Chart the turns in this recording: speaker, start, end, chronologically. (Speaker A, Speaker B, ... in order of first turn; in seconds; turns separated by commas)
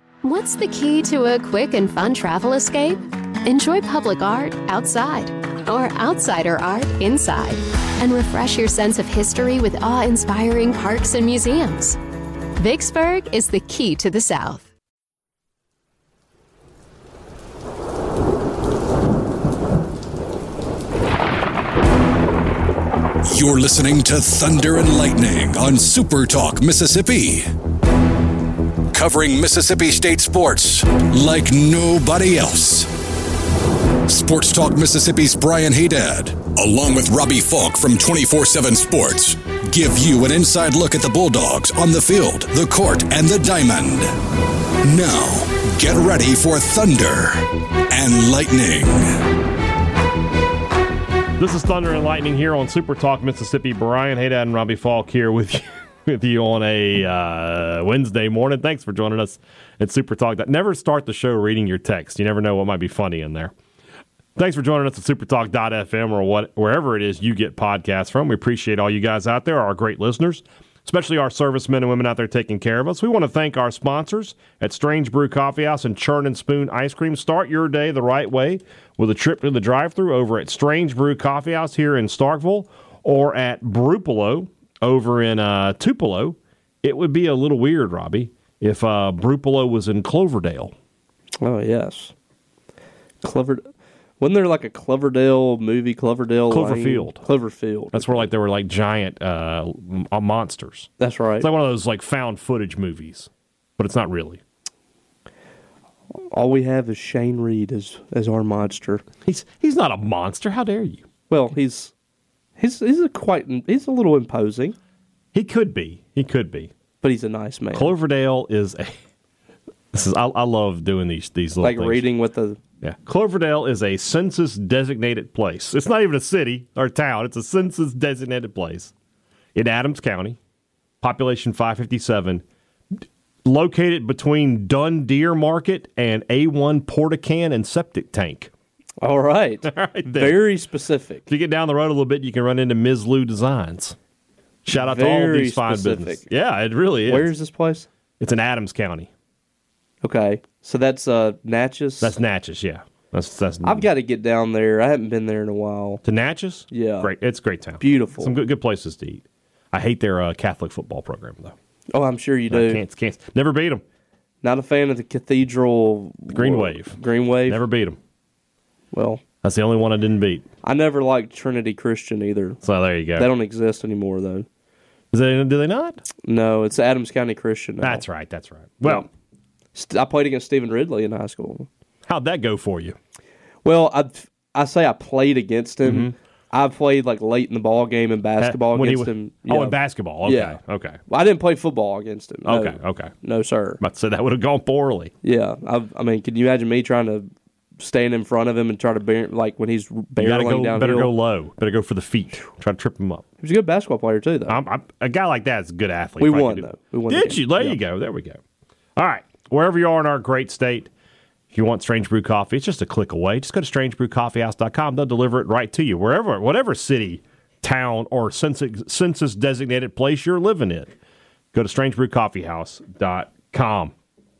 Speaker A: 0.2-12.0, Speaker A: 12.6-14.7, Speaker B: 23.2-27.5, Speaker B: 28.9-32.9, Speaker B: 34.0-44.1, Speaker B: 44.8-49.2, Speaker C: 51.4-63.5, Speaker C: 64.3-90.7, Speaker D: 91.4-92.1, Speaker D: 93.2-93.7, Speaker D: 94.2-98.3, Speaker C: 96.5-97.2, Speaker C: 97.9-104.4, Speaker D: 101.0-101.5, Speaker D: 106.1-109.0, Speaker C: 109.2-111.0, Speaker D: 111.3-111.9, Speaker D: 112.6-114.8, Speaker C: 115.3-116.7, Speaker D: 117.0-117.9, Speaker C: 117.7-119.0, Speaker C: 119.9-122.0, Speaker D: 121.6-122.6, Speaker C: 122.8-128.9, Speaker C: 129.5-130.4, Speaker C: 131.0-132.4, Speaker C: 133.4-138.5, Speaker D: 139.0-141.2, Speaker C: 139.6-140.5, Speaker C: 141.3-144.0, Speaker C: 144.6-147.3, Speaker D: 144.7-146.2, Speaker D: 147.1-147.9, Speaker C: 148.2-149.1, Speaker D: 150.0-152.2, Speaker C: 152.0-153.9, Speaker D: 153.6-156.0, Speaker C: 156.0-161.5, Speaker D: 156.7-157.1, Speaker D: 157.8-158.3, Speaker D: 161.9-162.8, Speaker C: 162.5-163.8, Speaker D: 164.4-167.6, Speaker C: 166.3-168.0, Speaker D: 168.9-169.2, Speaker C: 169.4-170.4, Speaker D: 170.6-172.6, Speaker C: 172.6-173.3, Speaker D: 173.2-174.5, Speaker C: 175.1-176.0, Speaker D: 176.2-178.0, Speaker C: 177.8-179.1, Speaker D: 179.7-181.7, Speaker C: 182.1-183.0, Speaker D: 183.6-190.6, Speaker C: 185.8-186.1, Speaker C: 188.4-191.0, Speaker D: 191.1-193.8, Speaker C: 192.4-193.1, Speaker C: 193.8-195.1, Speaker D: 195.2-197.3, Speaker D: 197.8-201.1, Speaker C: 200.2-203.2, Speaker D: 203.4-204.6, Speaker C: 204.5-208.4, Speaker D: 206.2-207.8, Speaker C: 208.9-210.9, Speaker C: 211.5-220.9, Speaker C: 221.5-223.9